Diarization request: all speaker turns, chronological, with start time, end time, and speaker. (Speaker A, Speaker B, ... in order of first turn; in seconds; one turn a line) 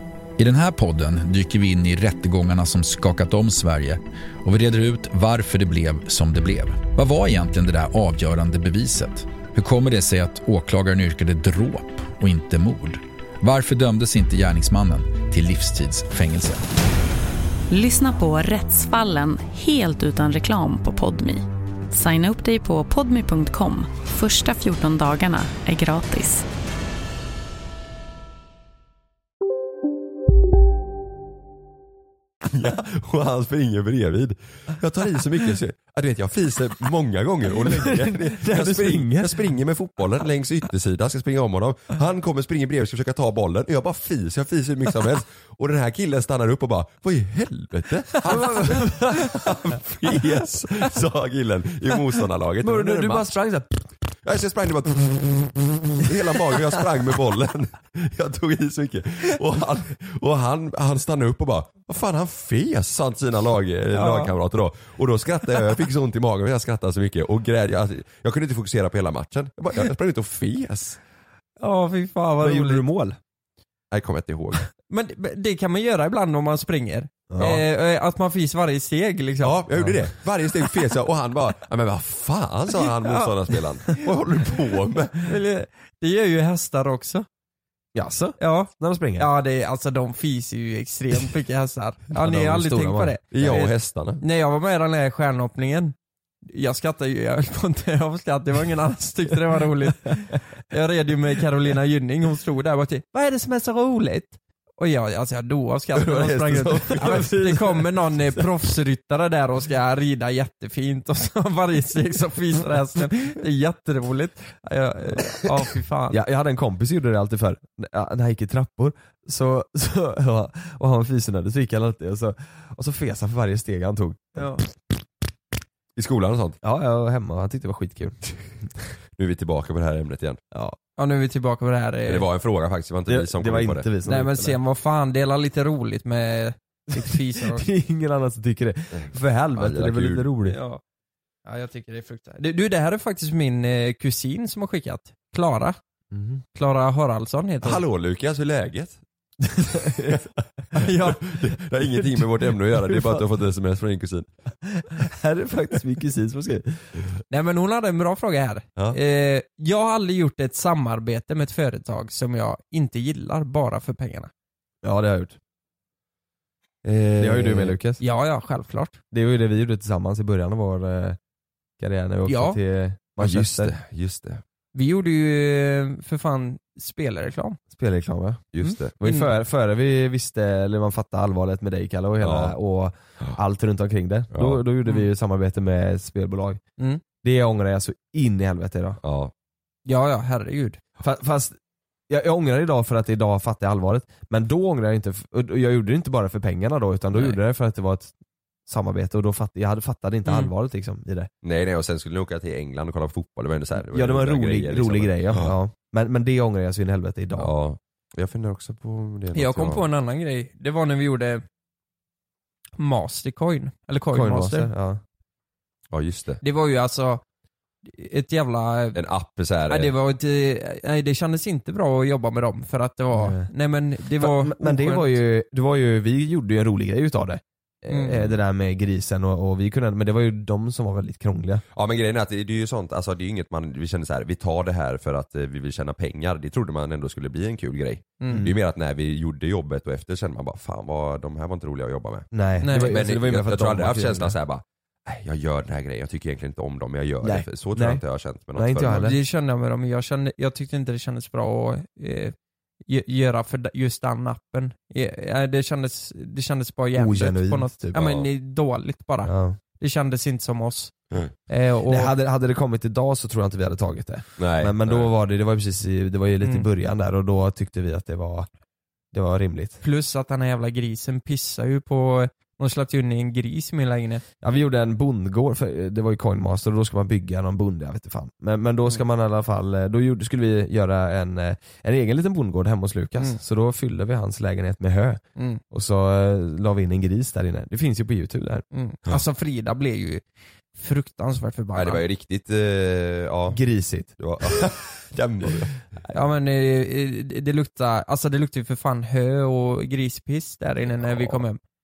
Speaker A: 0.4-16.6
Speaker B: 17.7-26.4
Speaker C: 32.5-53.3
Speaker D: 37.6-39.5
Speaker D: 48.2-49.4
Speaker D: 52.6-53.8
Speaker C: 54.2-71.0
Speaker E: 63.9-64.3
Speaker E: 71.6-72.8
Speaker D: 72.4-73.2
Speaker C: 73.9-74.6
Speaker E: 74.9-79.6
Speaker D: 77.3-77.6
Speaker C: 79.4-85.2
Speaker E: 82.8-83.3
Speaker E: 85.2-87.2
Speaker D: 87.9-89.3
Speaker E: 88.4-95.9
Speaker D: 92.1-93.2
Speaker C: 93.3-94.2
Speaker E: 96.5-116.2
Speaker D: 106.1-108.4
Speaker C: 106.8-107.2
Speaker D: 116.1-124.7
Speaker E: 124.3-124.6
Speaker C: 126.0-126.6
Speaker D: 126.6-128.7
Speaker C: 129.2-130.4
Speaker E: 131.0-132.2
Speaker C: 132.1-133.8
Speaker D: 133.1-134.6
Speaker E: 134.0-137.7
Speaker D: 136.9-140.6
Speaker C: 138.9-140.3
Speaker E: 140.5-140.8
Speaker E: 141.4-145.8
Speaker D: 146.1-146.4
Speaker E: 146.5-147.8
Speaker C: 147.6-149.0
Speaker D: 149.4-150.2
Speaker E: 150.7-151.2
Speaker C: 150.8-154.3
Speaker D: 152.0-153.2
Speaker D: 154.6-156.9
Speaker E: 157.3-164.3
Speaker D: 164.8-165.4
Speaker C: 166.8-167.8
Speaker D: 167.2-168.0
Speaker E: 168.0-169.0
Speaker D: 169.1-171.2
Speaker D: 171.8-173.7
Speaker E: 172.3-172.6
Speaker C: 173.2-174.4
Speaker E: 174.7-177.6
Speaker D: 177.7-186.6
Speaker C: 178.5-178.9
Speaker E: 178.6-179.3
Speaker C: 182.2-182.5
Speaker C: 184.3-184.6
Speaker D: 187.2-189.0
Speaker C: 189.0-189.3
Speaker E: 189.8-190.8
Speaker D: 191.0-191.5
Speaker D: 192.1-198.1
Speaker D: 198.7-201.3
Speaker C: 201.4-205.5
Speaker D: 203.8-207.5
Speaker C: 207.4-209.8
Speaker E: 209.3-211.4
Speaker E: 212.8-214.7
Speaker D: 214.1-215.0
Speaker C: 215.9-216.4
Speaker E: 216.4-217.2
Speaker E: 217.8-219.0
Speaker C: 218.9-219.9
Speaker E: 219.7-225.2
Speaker D: 223.1-223.5
Speaker D: 224.2-231.6
Speaker E: 227.9-228.2
Speaker C: 231.7-249.0
Speaker D: 238.3-238.5
Speaker D: 242.3-244.3
Speaker E: 242.6-242.9
Speaker D: 247.2-248.0
Speaker D: 248.5-249.2
Speaker E: 248.8-252.3
Speaker E: 252.9-260.9
Speaker D: 256.9-258.0
Speaker C: 257.9-258.2
Speaker D: 259.2-259.6
Speaker E: 261.5-262.1
Speaker D: 261.9-268.5
Speaker C: 264.4-265.1
Speaker D: 269.1-269.8
Speaker E: 269.8-274.2
Speaker D: 274.4-288.6
Speaker E: 285.4-285.6
Speaker E: 288.7-290.2
Speaker E: 290.7-292.0
Speaker C: 291.7-293.6
Speaker D: 293.5-294.6
Speaker C: 294.2-295.8
Speaker E: 296.1-301.6
Speaker C: 300.9-301.4